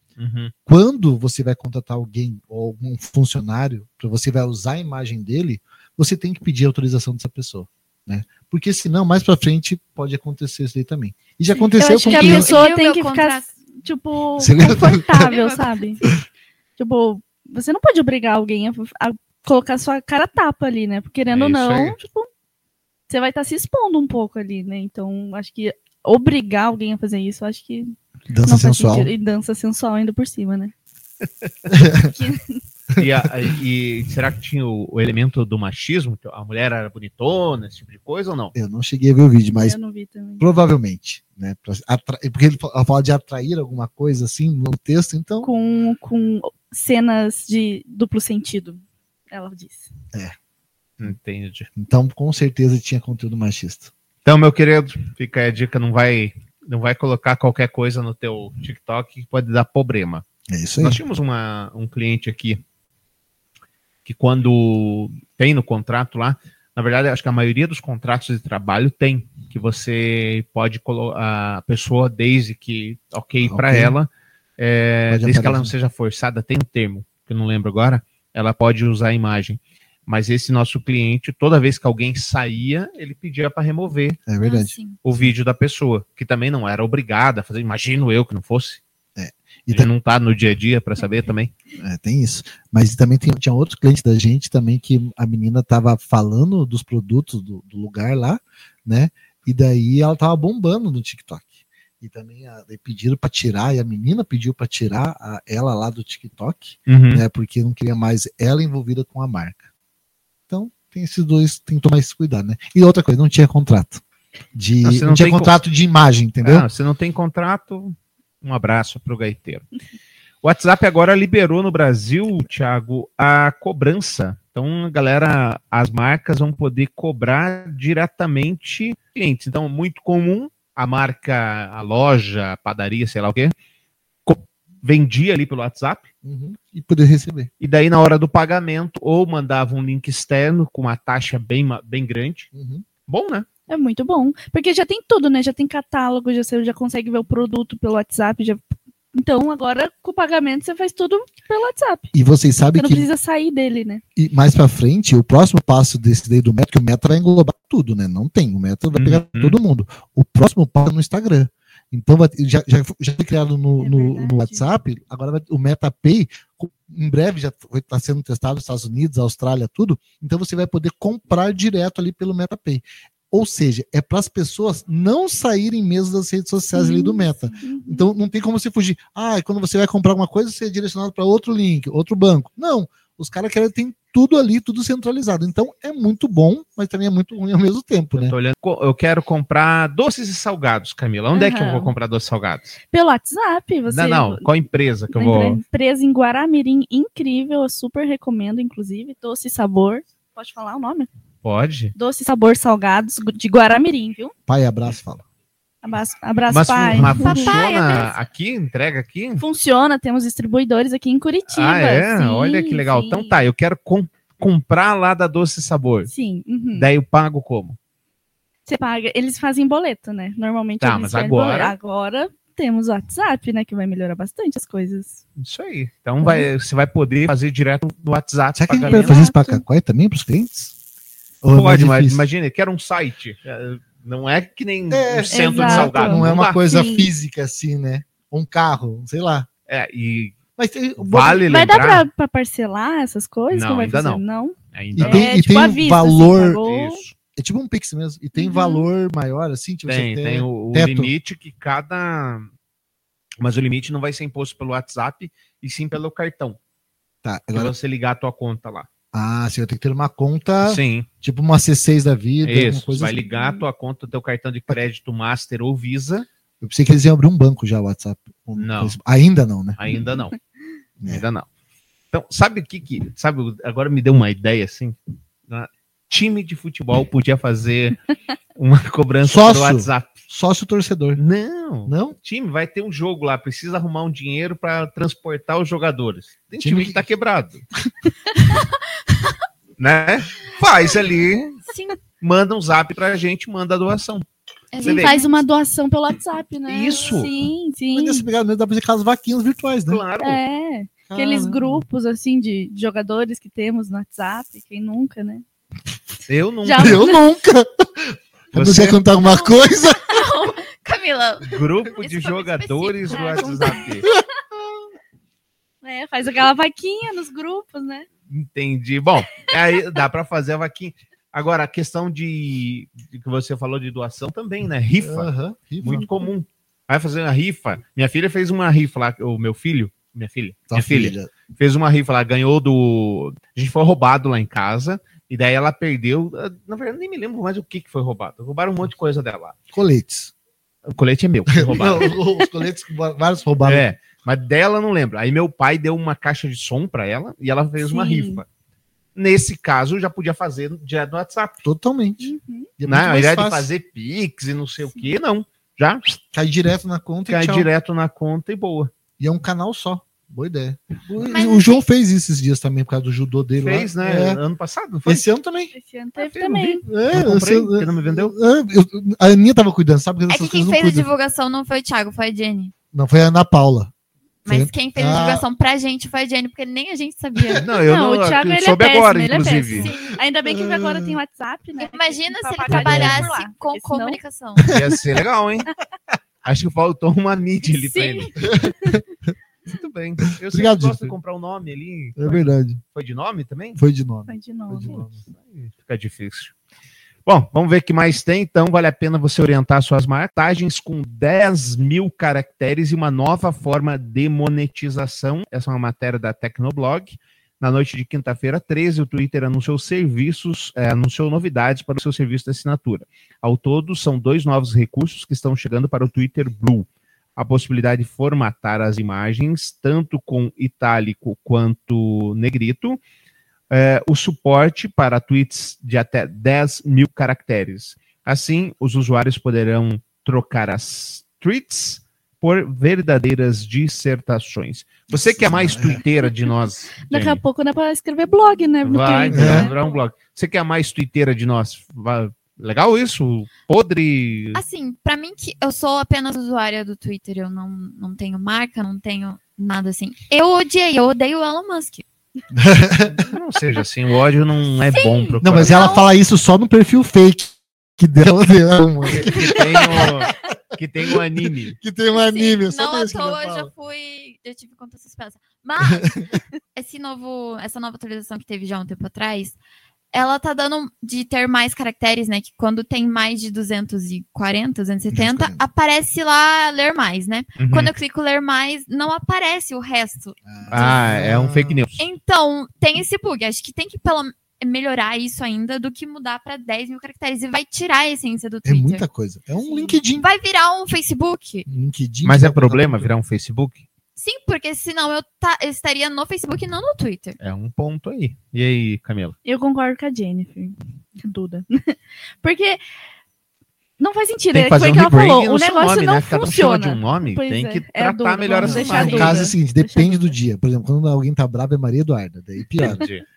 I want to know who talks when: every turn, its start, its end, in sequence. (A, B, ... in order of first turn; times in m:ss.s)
0:00.2-0:00.5 A
0:00.6-0:12.6 B
0:11.5-0:16.1 C
0:11.8-0:13.4 D
0:14.4-0:15.3 B
0:15.1-0:16.0 D
0:16.8-0:22.3 C
0:21.3-0:22.0 A
0:23.1-0:27.9 C
0:28.3-0:29.1 B
0:28.4-0:30.7 C
0:31.7-0:32.1 B
0:32.0-0:32.6 C
0:33.0-0:33.3 B
0:33.0-0:38.5 A
0:38.5-0:39.8 B
0:39.5-0:40.5 C
0:40.4-0:45.5 B
0:45.4-0:49.9 C
0:51.0-0:51.7 A
0:51.7-0:53.9 B
0:54.2-1:00.2 A
1:00.5-1:01.0 B
1:00.8-1:02.6 A
1:04.0-1:24.2 A
1:13.4-1:14.0 B
1:15.1-1:15.7 B
1:24.3-1:25.3 B
1:24.4-1:25.0 D
1:25.0-1:28.8 A
1:29.2-1:29.9 B
1:29.7-1:31.5 A
1:31.8-1:49.6 B
1:46.9-1:47.2 A
1:50.5-1:54.0 B
1:54.5-1:56.7 B
1:54.8-1:55.6 A
1:56.4-1:59.6 A
2:00.4-2:13.5 A
2:14.2-2:16.1 A
2:16.2-2:17.5 B
2:17.6-2:22.5 A
2:22.5-2:22.8 B
2:23.1-2:23.4 A
2:23.7-2:32.1 C
2:32.1-2:33.1 B
2:32.8-2:34.0 C
2:34.2-3:08.3 B
2:38.9-2:39.6 A
2:43.8-2:44.7 C
2:56.7-2:58.1 C
3:08.1-3:12.8 A
3:11.3-3:11.9 C
3:12.9-3:14.4 C
3:13.9-3:15.6 A
3:15.1-3:21.1 C
3:21.4-3:21.9 A
3:21.9-3:24.3 C
3:24.5-3:25.2 B
3:25.8-3:27.6 C
3:26.5-3:29.4 A
3:27.1-3:28.1 D
3:29.4-3:33.4 C
3:31.5-3:36.1 A
3:36.1-3:36.9 C
3:36.7-3:37.8 A
3:38.6-3:45.2 C
3:40.8-3:41.7 A
3:45.4-3:49.2 A
3:46.2-3:46.5 C
3:48.5-3:50.7 B
3:48.8-3:49.6 C
3:51.4-3:52.2 B
3:51.5-3:56.6 A
3:54.9-3:59.5 B
3:55.3-3:57.1 C
3:59.7-4:00.4 A
4:00.6-4:01.4 B
4:01.0-4:02.1 A
4:01.5-4:07.0 C
4:03.5-4:04.2 A
4:04.7-4:05.3 A
4:04.9-4:06.6 B
4:06.6-4:07.1 A
4:07.3-4:11.1 B
4:08.4-4:08.8 C
4:09.8-4:12.5 A
4:13.4-4:16.6 A
4:17.2-4:17.7 B
4:17.5-4:18.9 A
4:19.1-4:23.2 B
4:20.6-4:21.1 A
4:22.4-4:26.2 A
4:23.2-4:23.4 C
4:26.6-4:29.8 B
4:28.6-4:29.0 A
4:29.8-4:30.3 A
4:31.0-4:31.2 B
4:31.0-4:31.5 A
4:32.1-4:35.0 A
4:35.5-4:38.0 A
4:38.6-4:40.1 A
4:39.2-4:41.2 B
4:41.2-4:47.6 A
4:41.9-4:42.2 B
4:46.6-4:47.1 B
4:48.5-4:49.3 D
4:49.8-4:51.6 A
4:51.7-4:52.0 D
4:52.2-4:54.2 A
4:54.7-4:55.4 D
4:54.8-4:55.1 A
4:54.8-4:58.3 C
4:56.7-4:57.3 A
4:57.9-5:00.0 B
4:59.9-5:00.4 A
5:00.2-5:05.4 C
5:01.1-5:01.8 B
5:01.2-5:01.5 A
5:06.3-5:07.1 A
5:06.6-5:07.2 C
5:06.7-5:10.0 B
5:08.5-5:09.0 A
5:09.2-5:13.8 D
5:11.4-5:14.1 A
5:13.1-5:14.1 C
5:15.8-5:18.1 C
5:18.3-5:25.3 A
5:25.0-5:26.1 B
5:25.8-5:39.6 A
5:30.7-5:31.3 B
5:39.7-5:40.3 B
5:40.8-5:42.2 A
5:41.5-5:43.9 B
5:43.6-5:48.4 A
5:47.8-5:48.4 C
5:49.1-5:51.6 A
5:51.6-5:53.7 B
5:52.2-5:52.7 C
5:52.8-5:56.2 A
5:56.3-5:57.7 B
5:57.3-5:58.9 A
5:59.2-6:04.4 B
6:01.2-6:01.8 D
6:03.6-6:05.3 A
6:05.0-6:05.7 B
6:05.7-6:06.8 C
6:06.2-6:08.3 A
6:06.8-6:11.1 B
6:10.3-6:12.7 D
6:12.9-6:13.9 B
6:14.4-6:17.7 D
6:14.4-6:15.4 B
6:17.4-6:17.6 B
6:17.6-6:19.9 A
6:17.8-6:24.2 C
6:19.8-6:20.1 D
6:20.4-6:21.2 B
6:21.8-6:24.7 D
6:22.7-6:23.3 B
6:24.7-6:25.7 A
6:26.4-6:28.4 A
6:27.9-6:28.2 D
6:28.4-6:29.0 B
6:28.5-6:29.0 C
6:29.7-6:33.8 A
6:30.5-6:31.2 B
6:32.2-6:32.8 B
6:33.8-6:35.2 B
6:34.3-6:35.0 C
6:34.8-6:36.5 A
6:37.2-7:03.0 A
7:03.7-7:17.4 A
7:15.1-7:16.0 B
7:17.1-7:19.8 C
7:18.8-7:24.6 A
7:19.0-7:19.9 D
7:19.3-7:19.7 B
7:24.5-7:32.0 D
7:32.5-7:33.2 B
7:33.0-7:36.0 A
7:34.9-7:36.1 D
7:35.0-7:35.3 C
7:35.4-7:40.3 B
7:39.1-7:41.8 A
7:41.7-7:43.7 B
7:42.1-7:46.2 D
7:45.8-7:46.4 B
7:46.7-7:49.6 D
7:50.1-8:01.1 D
7:55.1-7:55.6 B
7:57.6-7:57.9 A
8:00.4-8:01.8 B
8:00.7-8:02.0 A
8:02.0-8:09.0 D
8:08.6-8:10.3 B
8:09.6-8:11.7 D
8:11.7-8:13.1 B
8:12.2-8:13.8 A
8:14.2-8:17.4 D
8:17.4-8:19.3 A
8:19.4-8:22.8 C
8:24.0-8:30.3 C
8:24.5-8:29.5 A
8:28.6-8:33.0 B
8:28.9-8:29.3 D
8:32.8-8:33.2 A